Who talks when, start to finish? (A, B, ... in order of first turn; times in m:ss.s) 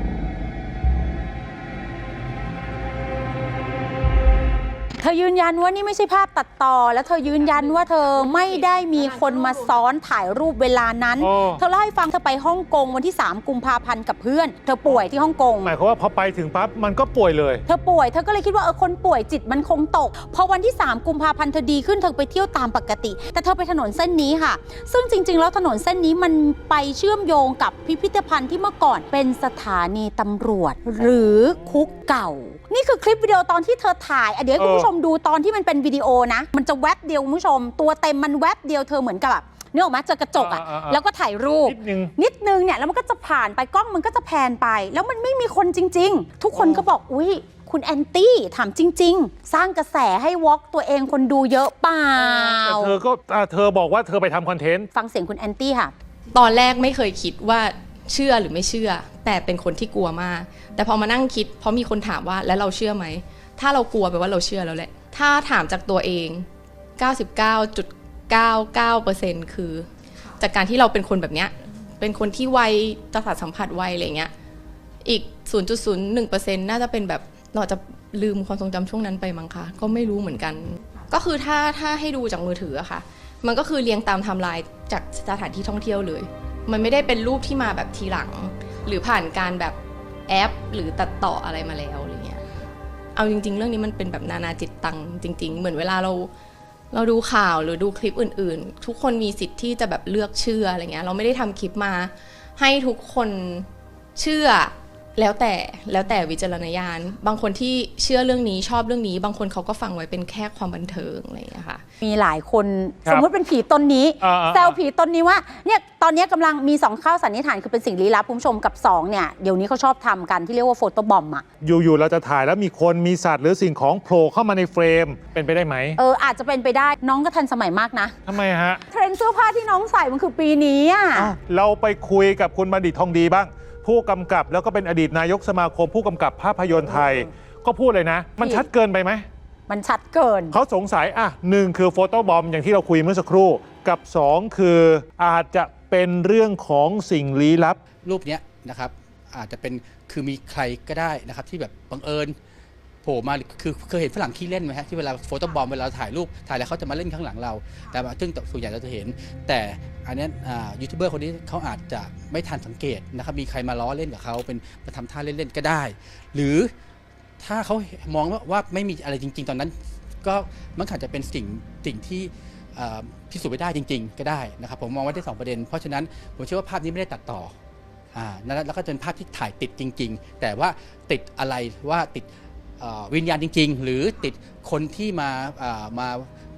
0:05.0-0:15.7 A
0:07.4-0:09.8 B
0:11.2-0:11.6 C
0:15.6-0:17.6 C
0:17.7-0:53.0 A
0:31.6-0:31.9 C
0:34.6-0:34.9 C
0:40.4-0:41.0 C
0:41.6-0:42.1 C
0:46.6-0:46.8 C
0:52.2-0:54.9 C
0:54.9-0:55.9 A
0:56.3-1:06.5 B
1:07.0-1:14.3 B
1:15.0-1:32.4 B
1:33.2-1:36.3 B
1:36.9-1:51.8 B
1:52.0-2:01.4 A
1:54.2-1:54.8 C
2:01.6-2:06.0 C
2:06.0-2:08.1 A
2:08.3-2:08.8 C
2:08.9-2:11.4 A
2:11.2-2:19.3 C
2:16.9-2:17.2 A
2:18.4-2:18.7 A
2:19.7-2:20.6 A
2:20.5-2:27.8 C
2:28.0-2:32.4 D
2:33.0-2:46.7 D
2:47.4-2:57.5 D
2:58.1-3:02.3 D
3:02.8-3:06.3 D